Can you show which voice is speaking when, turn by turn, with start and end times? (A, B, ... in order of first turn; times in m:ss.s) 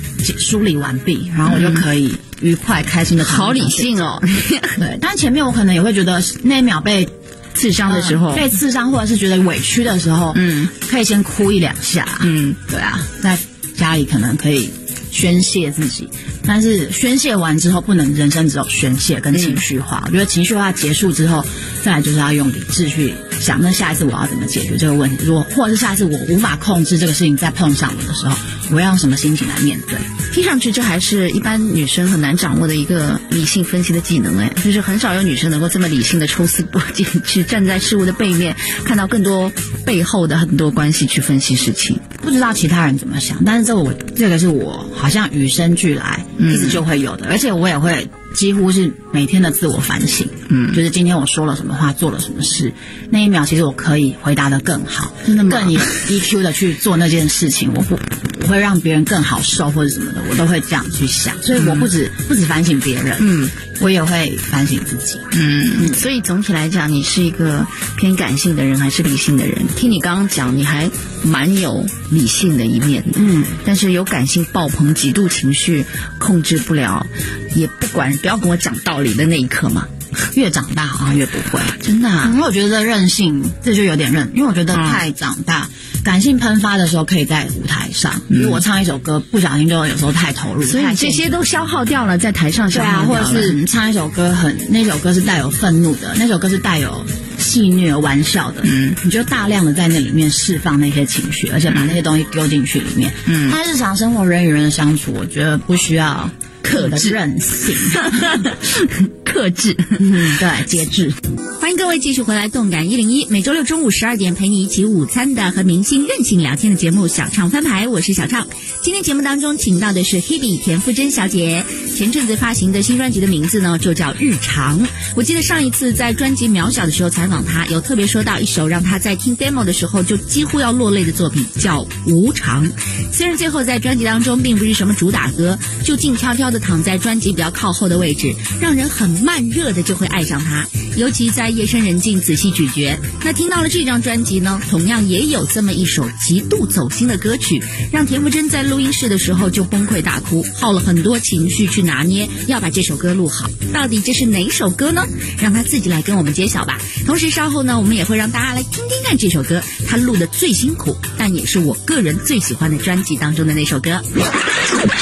0:00.2-0:03.9 A
0:01.5-0:01.8 B
0:03.2-0:04.8 B
0:04.8-0:07.1 A
0:07.5-0:08.5 B
0:07.8-0:30.1 A
0:10.3-0:10.7 B
0:12.2-0:12.6 B
0:19.3-0:19.6 B
0:30.3-0:42.0 B
0:42.2-1:06.0 A
0:46.4-0:46.8 B
0:50.5-0:50.8 B
0:55.2-0:55.9 B
1:01.5-1:01.9 B
1:03.2-1:03.5 B
1:05.3-1:19.9 B
1:13.2-1:13.6 A
1:20.3-1:31.4 A
1:21.7-1:22.4 B
1:24.7-1:25.0 B
1:28.3-1:28.6 B
1:30.6-1:33.6 B
1:32.7-1:48.5 A
1:38.6-1:39.0 B
1:41.7-1:42.0 B
1:43.3-1:43.6 B
1:46.6-1:47.2 B
1:47.8-1:50.2 B
1:50.0-1:51.2 A
1:51.6-2:44.0 C
1:51.6-2:12.7 B
2:13.5-2:28.3 B
2:30.2-2:31.3 B
2:34.4-2:34.7 B